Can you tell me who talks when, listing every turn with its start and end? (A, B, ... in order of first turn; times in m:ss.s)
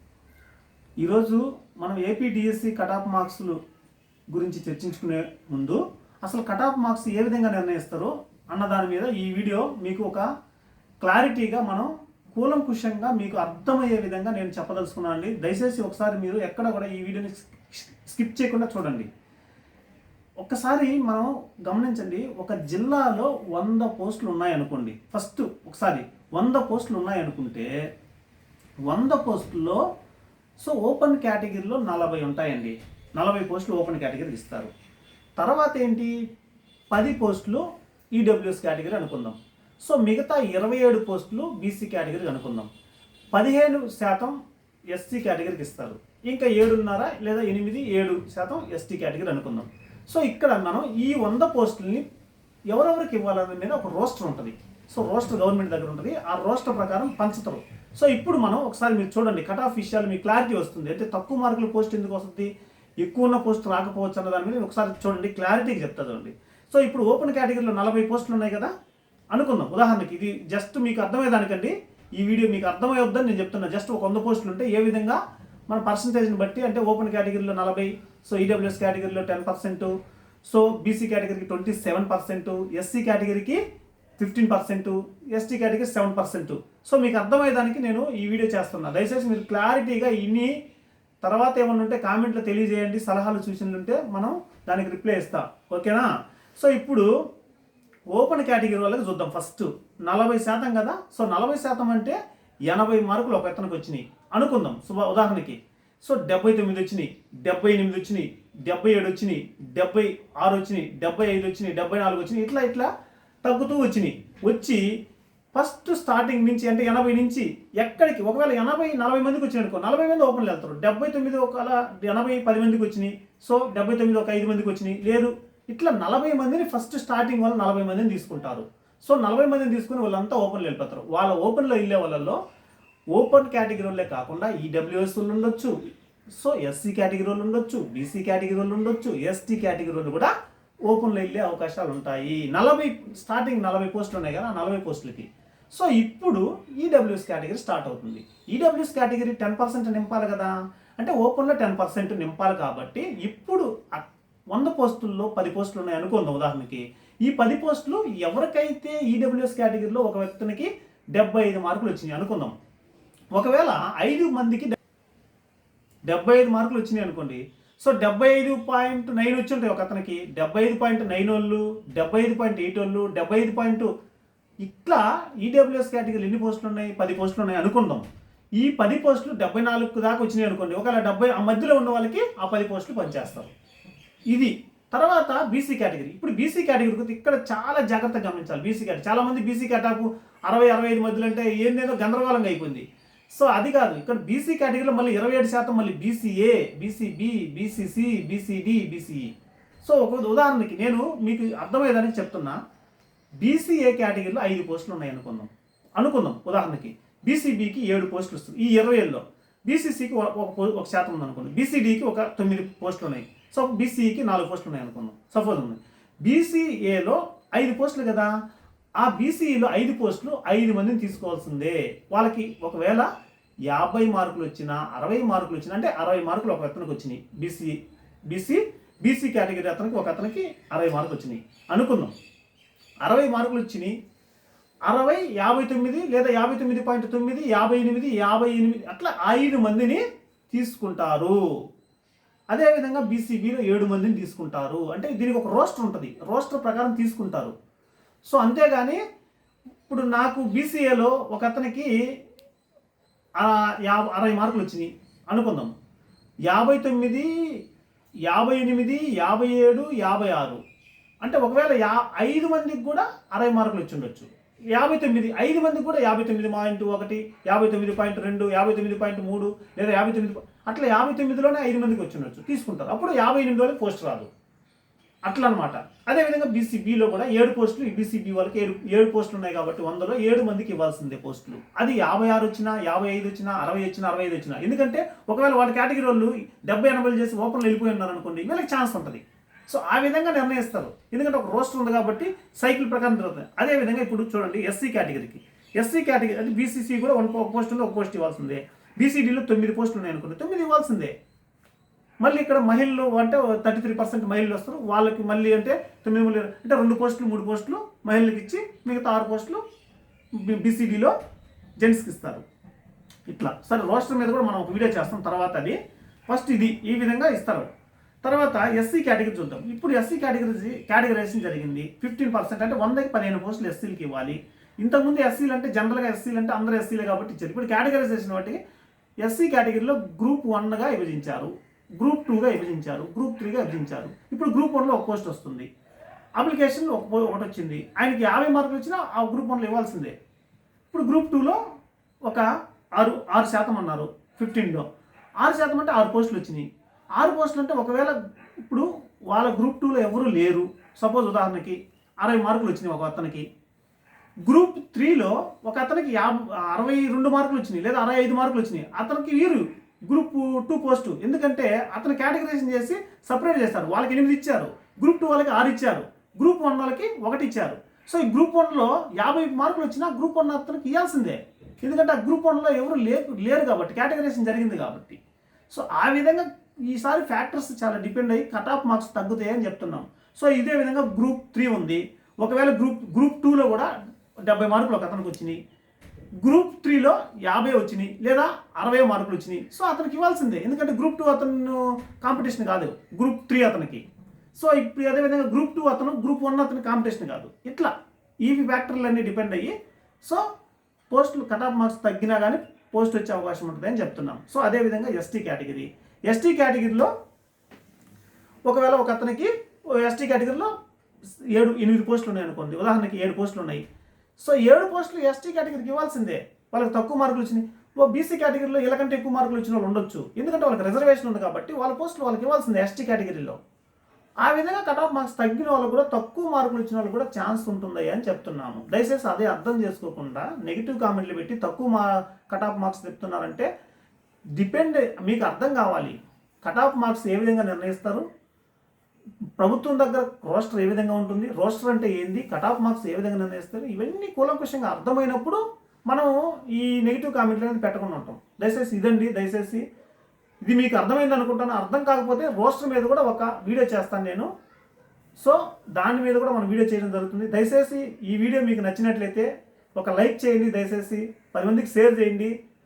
0:01.0-0:03.6 A
0:04.3-0:10.2 A
0:11.0-0:19.1 A
0:20.4-0:27.7 A
0:28.9-0:29.8 A
0:30.6-0:34.7 A
0:35.4-0:36.1 A
0:36.9-0:37.6 A
0:38.1-0:42.7 A
0:43.3-0:44.4 A
0:44.9-0:52.0 A
0:52.7-1:02.5 A
1:03.0-1:08.7 A
1:09.3-1:19.9 A
1:20.4-1:23.6 A
1:24.2-1:30.5 A
1:31.2-1:36.0 A
1:36.6-1:37.1 A
1:38.1-1:52.9 A
1:53.4-1:54.8 A
1:55.5-2:12.4 A
2:13.1-2:15.7 A
2:16.4-2:20.3 A
2:20.9-2:42.5 A
2:43.3-2:44.8 A
2:46.1-2:53.9 A
2:54.6-2:58.0 A
2:58.6-3:03.5 A
3:04.3-3:12.8 A
3:13.4-3:19.3 A
3:19.8-3:22.6 A
3:23.4-3:38.3 A
3:39.0-3:43.1 A
3:43.7-3:47.8 A
3:48.3-3:52.1 A
3:53.0-3:53.9 A
3:54.9-4:01.4 A
4:02.5-4:07.5 A
4:08.3-4:09.0 A
4:09.9-4:11.9 A
4:13.4-4:15.7 A
4:16.5-4:17.2 A
4:18.3-4:20.6 A
4:21.2-4:34.3 A
4:35.3-5:01.1 A
5:02.2-5:09.6 A
5:10.4-5:11.1 A
5:11.8-5:12.4 A
5:13.3-5:17.7 A
5:18.2-5:28.6 A
5:29.2-5:35.7 A
5:36.4-5:40.1 A
5:40.9-5:41.6 A
5:42.2-5:44.9 A
5:45.4-5:46.6 A
5:47.2-5:53.4 A
5:54.4-6:23.9 A
6:24.5-6:25.6 A
6:26.4-6:34.0 A
6:34.6-6:37.9 A
6:38.4-6:39.7 A
6:41.1-6:47.1 A
6:48.7-6:50.7 A
6:51.5-6:53.8 A
6:54.4-7:03.6 A
7:04.4-7:13.7 A
7:14.6-7:18.2 A
7:19.6-7:29.8 A
7:30.6-7:34.5 A
7:35.4-7:42.5 A